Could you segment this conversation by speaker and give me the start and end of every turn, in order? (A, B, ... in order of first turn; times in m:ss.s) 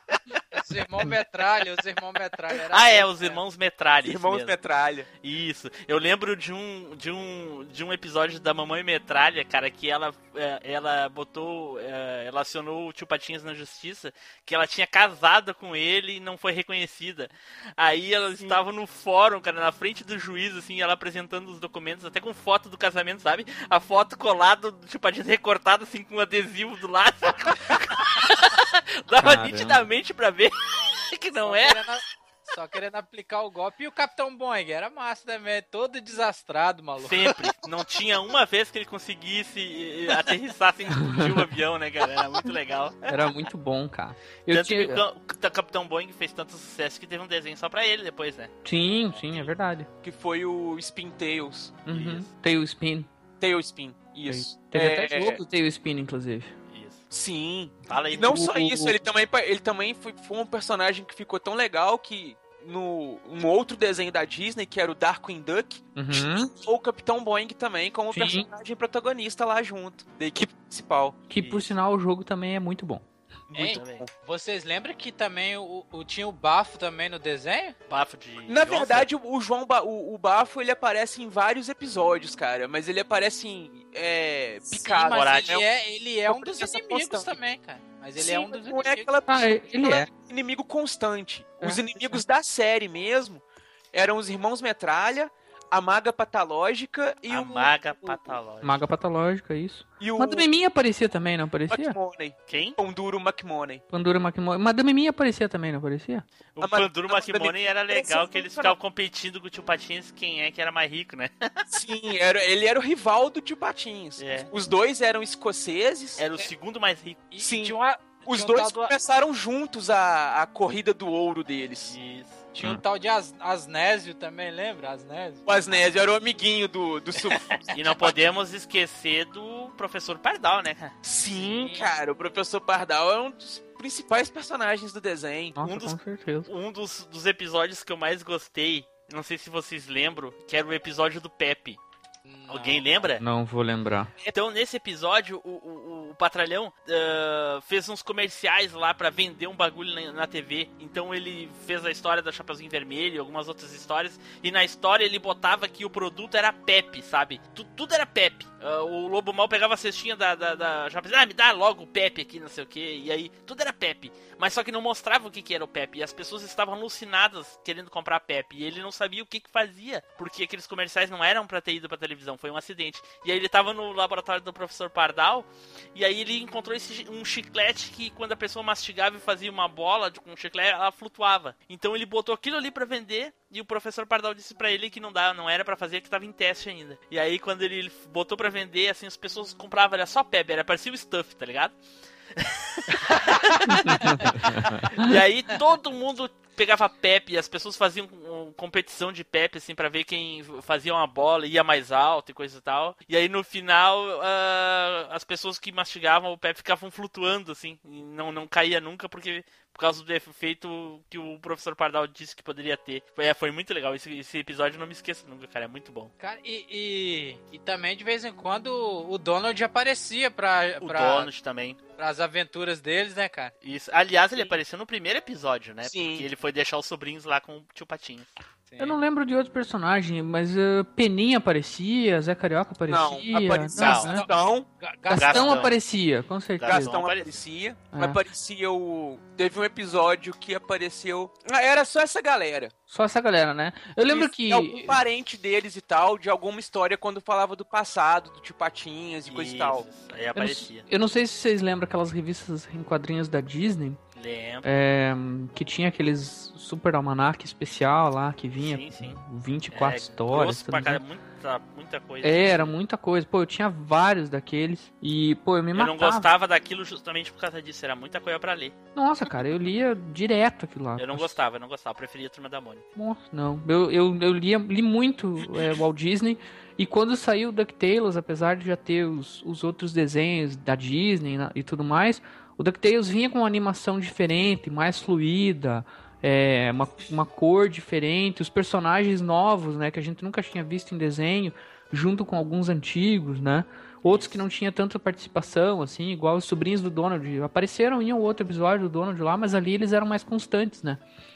0:00.5-0:03.4 A
0:02.7-0:04.6 B
0:04.0-0:05.1 C
0:05.2-0:31.9 B
0:29.2-0:29.8 D
0:31.4-0:37.4 A
0:37.0-0:43.1 B
0:43.1-0:45.0 D
0:44.5-0:48.5 B
0:48.6-0:49.9 D
0:49.1-0:49.5 B
0:50.0-0:51.8 C
0:51.9-0:53.1 D
0:51.9-0:52.3 B
0:53.4-0:55.4 C
0:54.3-0:56.5 D
0:56.7-0:57.0 B
0:57.1-1:11.2 C
0:57.9-0:58.5 B
0:58.3-0:59.0 D
1:06.0-1:06.5 D
1:08.1-1:08.5 D
1:11.3-1:13.0 D
1:11.3-1:11.7 B
1:13.5-1:14.1 C
1:13.6-1:17.8 A
1:13.6-1:14.1 B
1:17.9-1:19.1 B
1:18.5-1:25.7 C
1:24.7-1:29.1 A
1:25.1-1:25.6 B
1:26.3-1:27.4 C
1:28.2-1:38.4 C
1:29.3-1:30.1 D
1:31.6-1:32.2 D
1:37.3-1:38.8 B
1:38.6-1:42.0 D
1:40.0-1:40.5 C
1:41.7-1:43.8 C
1:42.5-1:42.8 B
1:43.9-1:46.2 D
1:46.6-1:51.6 B
1:46.6-1:48.8 C
1:51.7-1:56.3 C
1:54.2-1:54.5 B
1:56.2-1:57.3 B
1:57.3-1:58.9 A
1:57.4-2:02.0 C
2:01.9-2:02.5 B
2:02.5-2:05.4 A
2:05.4-2:08.3 C
2:07.7-2:10.9 B
2:11.0-2:15.6 C
2:15.6-2:16.5 D
2:15.6-2:21.8 B
2:22.3-2:23.1 A
2:22.5-2:23.2 B
2:23.2-2:24.1 D
2:24.3-3:11.8 B
3:12.4-3:36.1 B
3:13.8-3:15.1 D
3:36.2-3:41.3 A
3:40.8-3:41.8 B
3:42.0-3:43.5 A
3:43.6-3:48.3 B
3:45.8-3:46.3 C
3:48.7-3:49.0 A
3:48.8-3:54.3 D
3:52.9-3:54.7 C
3:53.8-3:54.1 B
3:54.8-3:55.7 A
3:55.1-3:56.8 D
3:55.2-3:55.7 B
3:56.6-3:57.4 B
3:56.7-4:02.7 C
3:57.9-3:58.2 D
4:02.9-4:05.0 D
4:04.0-4:09.9 C
4:09.3-4:10.9 B
4:10.4-4:14.0 D
4:14.2-4:14.7 B
4:14.6-4:21.0 D
4:18.6-4:19.2 B
4:19.7-4:22.7 B
4:22.2-4:26.3 D
4:25.7-4:28.8 B
4:29.0-4:31.3 D
4:31.0-4:32.8 B
4:33.0-5:01.0 D